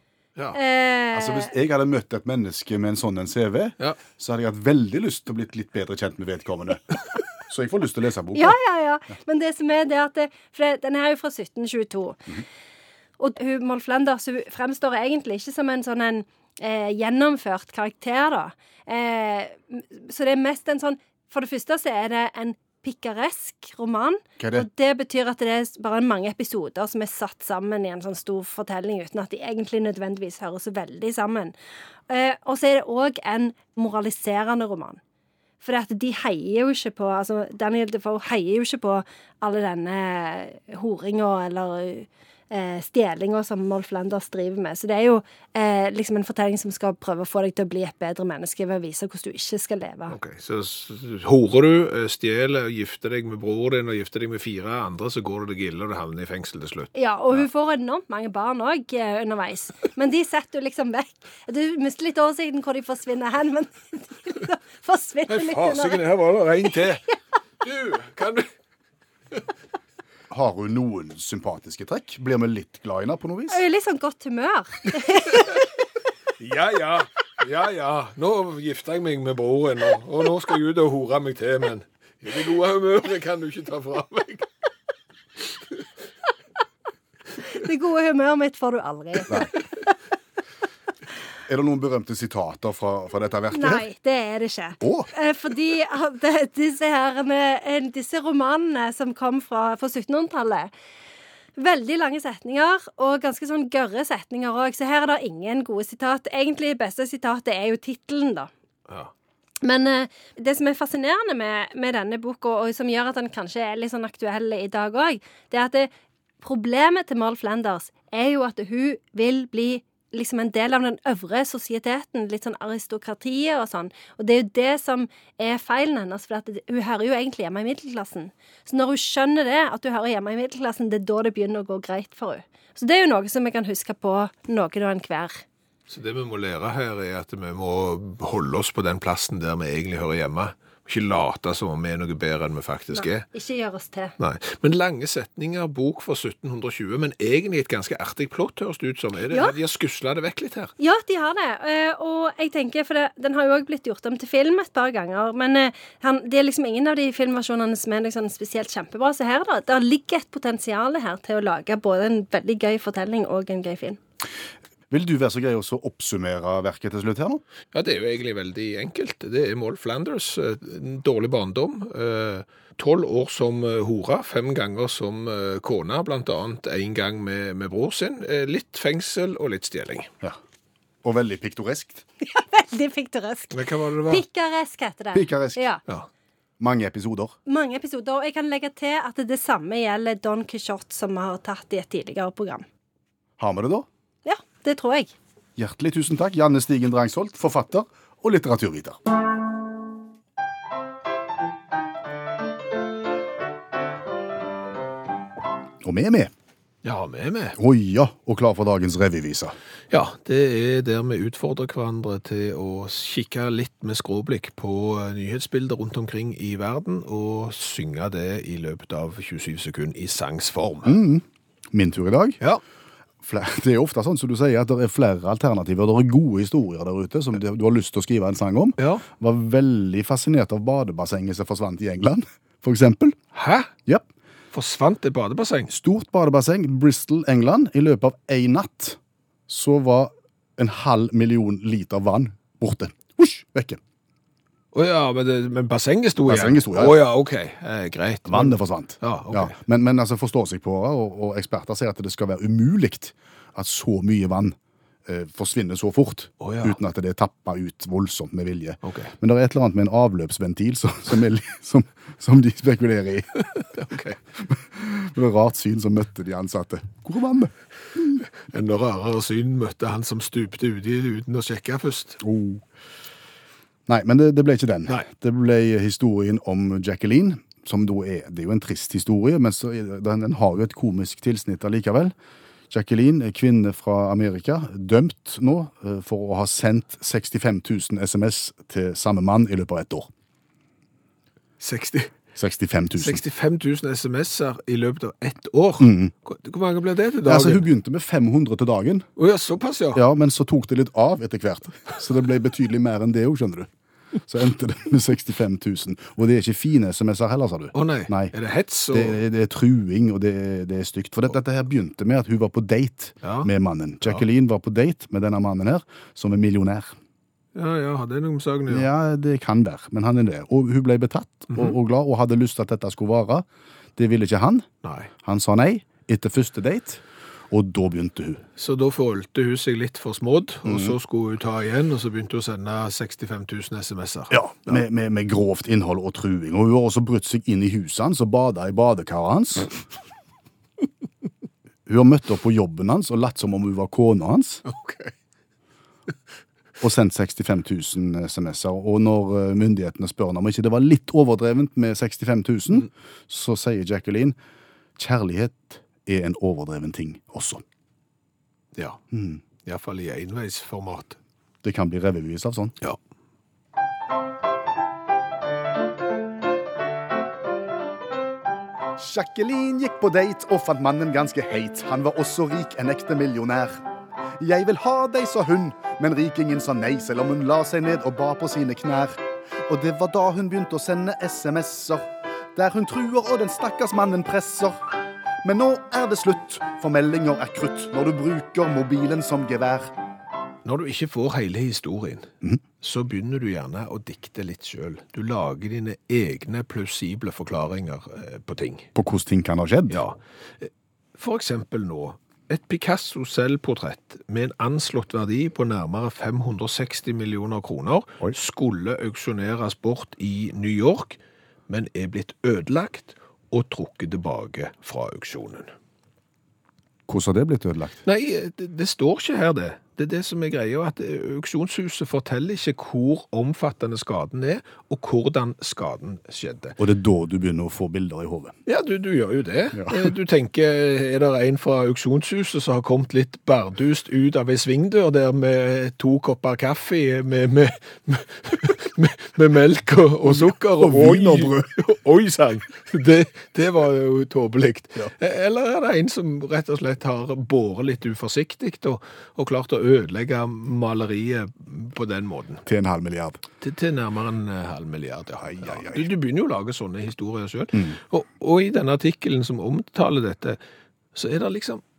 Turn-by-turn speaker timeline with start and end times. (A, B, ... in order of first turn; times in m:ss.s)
0:00.5-0:01.5 A
0:01.1-0:08.6 B
0:08.3-0:12.4 A
0:13.2-0:31.5 A
0:24.4-0:24.6 B
0:32.1-0:35.0 A
0:35.6-0:50.2 A
0:50.1-0:57.4 C
0:56.9-1:06.0 A
1:05.3-1:07.0 C
1:07.6-1:08.5 C
1:10.3-1:13.6 B
1:13.5-1:15.5 A
1:16.4-1:24.5 C
1:27.4-1:29.7 A
1:31.5-1:33.8 B
1:33.5-1:40.7 A
1:34.8-1:35.1 B
1:41.6-1:48.5 A
1:49.6-1:55.9 A
1:56.4-2:15.4 A
2:15.9-2:23.3 C
2:22.9-2:24.2 A
2:24.2-2:30.7 C
2:30.8-2:44.0 A
2:44.9-2:47.4 B
2:47.7-3:00.1 C
3:01.0-3:02.0 B
3:02.2-3:05.8 A
3:03.5-3:04.2 C
3:05.1-3:05.6 B
3:06.6-3:07.3 B
3:07.5-3:12.6 A
3:13.4-3:13.9 B
3:14.2-3:15.1 A
3:15.6-3:19.0 B
3:25.8-3:26.3 B
3:26.8-3:27.6 C
3:27.6-3:29.5 B
3:29.9-3:41.0 C
3:40.8-3:42.4 B
3:43.2-3:53.2 B
3:48.8-3:49.0 C
3:53.3-3:53.7 C
3:54.5-3:55.7 C
3:55.7-4:03.8 B
4:04.7-4:09.5 C
4:06.3-4:07.0 B
4:08.3-4:23.4 B
4:16.4-4:16.8 C
4:18.8-4:19.1 C
4:23.5-4:24.2 C
4:24.4-4:28.2 B
4:28.4-4:32.2 C
4:32.2-4:32.6 B
4:33.9-4:42.1 B
4:42.7-4:50.1 B
4:51.6-4:52.1 C
4:52.3-4:53.2 B
4:53.0-4:57.6 C
4:55.8-4:56.1 B
4:57.2-4:59.1 B
4:59.2-5:00.0 C
4:59.9-5:03.7 B
5:04.2-5:08.3 B
5:07.7-5:09.2 C
5:08.9-5:17.0 B
5:13.2-5:13.5 C
5:17.5-5:18.9 C
5:18.7-5:24.7 B
5:24.8-5:25.1 C
5:25.2-5:28.4 B
5:28.6-5:34.8 C
5:30.6-5:30.9 B
5:34.3-5:39.8 B
5:41.8-5:44.6 B
5:44.6-5:45.1 C
5:46.8-5:54.3 B
5:55.0-5:57.6 B
5:58.7-5:59.0 C
5:59.1-5:59.4 B
5:59.6-6:01.2 C
6:01.6-6:02.7 B
6:09.0-6:13.8 B
6:14.4-6:24.9 B
6:25.4-6:29.9 B
6:30.6-6:38.9 C
6:38.9-6:40.0 B
6:39.9-6:55.7 C
6:57.1-6:58.0 B
6:58.0-7:06.8 C
7:06.8-7:08.6 B
7:08.6-7:32.6 C
7:09.7-7:10.1 B
7:20.2-7:21.7 B
7:32.6-7:33.4 B
7:33.6-7:40.6 C
7:35.4-7:36.1 B
7:41.1-7:41.8 C